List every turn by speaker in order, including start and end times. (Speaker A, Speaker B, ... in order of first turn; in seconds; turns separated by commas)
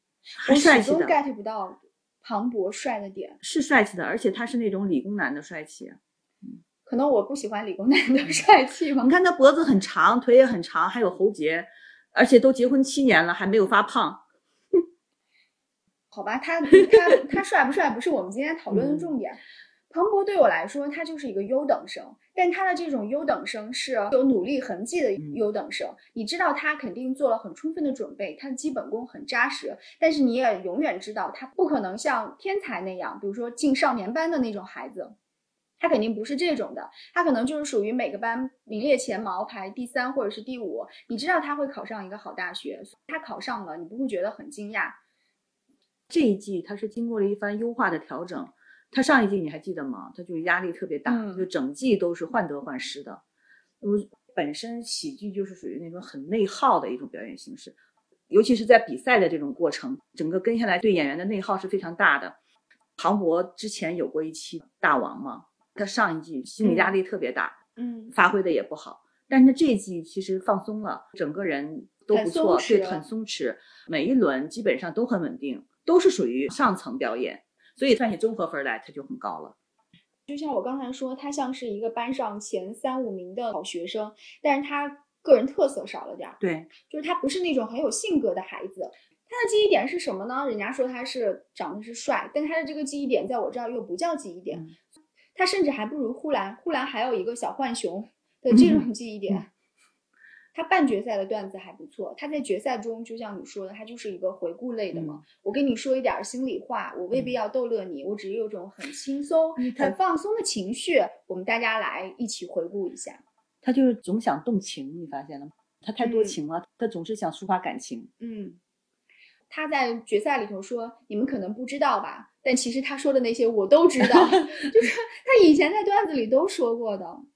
Speaker A: 0.4-1.1, Speaker B: 0.4-3.4, Speaker A: 3.4-6.0, Speaker B: 6.8-9.1, Speaker A: 9.0-14.2, Speaker B: 16.1-19.4, Speaker A: 18.7-19.1, Speaker B: 19.9-35.1, Speaker B: 35.8-45.0, Speaker A: 46.1-53.2, Speaker B: 51.0-51.5, Speaker A: 53.8-57.8, Speaker A: 58.3-62.4, Speaker A: 63.0-67.6, Speaker B: 66.6-66.9, Speaker B: 67.8-68.1, Speaker A: 68.1-79.5, Speaker B: 72.1-73.0, Speaker B: 80.3-94.7, Speaker A: 86.4-86.7, Speaker B: 95.3-99.5, Speaker B: 100.5-113.2, Speaker A: 104.9-105.2, Speaker A: 109.6-109.9, Speaker A: 113.6-118.1, Speaker B: 116.0-116.3, Speaker B: 118.2-118.6, Speaker B: 119.5-127.2, Speaker A: 124.0-124.7